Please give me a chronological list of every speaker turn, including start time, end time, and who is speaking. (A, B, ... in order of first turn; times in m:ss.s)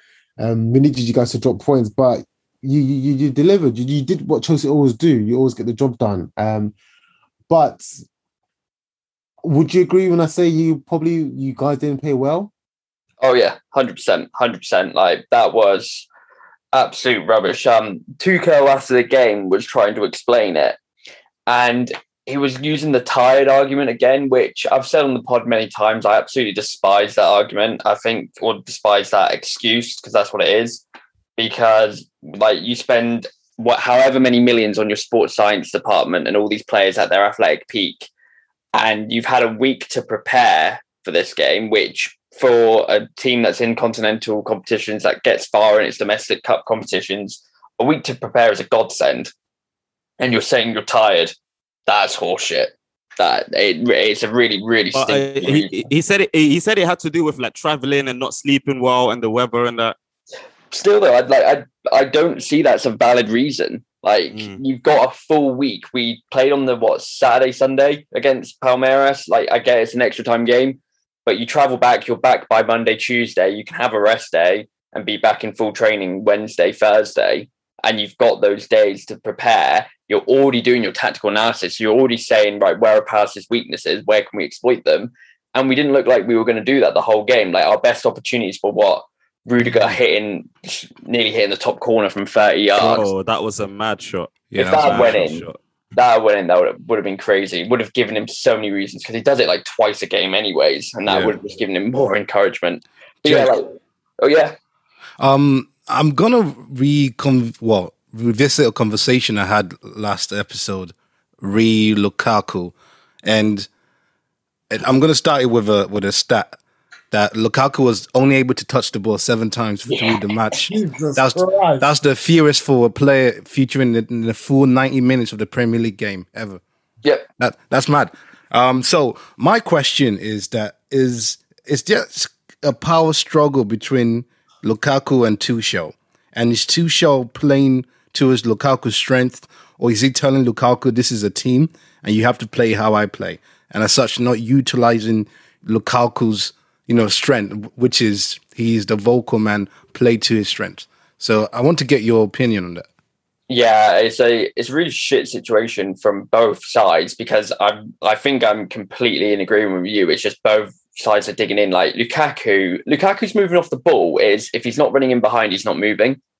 0:00.4-0:06.7 A
0:07.5-0:07.9 A
0:09.4-0:12.5 A
0:13.2-0:16.0 B
0:16.7-0:20.8 B
0:21.5-0:30.8 B
0:31.4-0:38.1 B
0:38.7-0:49.3 B
0:50.2-0:51.3 B
0:51.9-0:55.8 B
0:54.9-0:59.9 C
1:00.7-1:33.1 B
1:04.3-1:04.6 C
1:32.8-1:35.6 C
1:34.5-1:35.2 D
1:34.6-1:44.6 B
1:41.0-1:41.4 D
1:43.2-1:43.5 D
1:45.2-1:53.7 D
1:54.7-1:56.6 D
1:57.1-2:06.6 D
1:59.9-2:00.2 B
2:00.7-2:01.9 A
2:07.4-2:32.8 D
2:33.5-2:46.2 B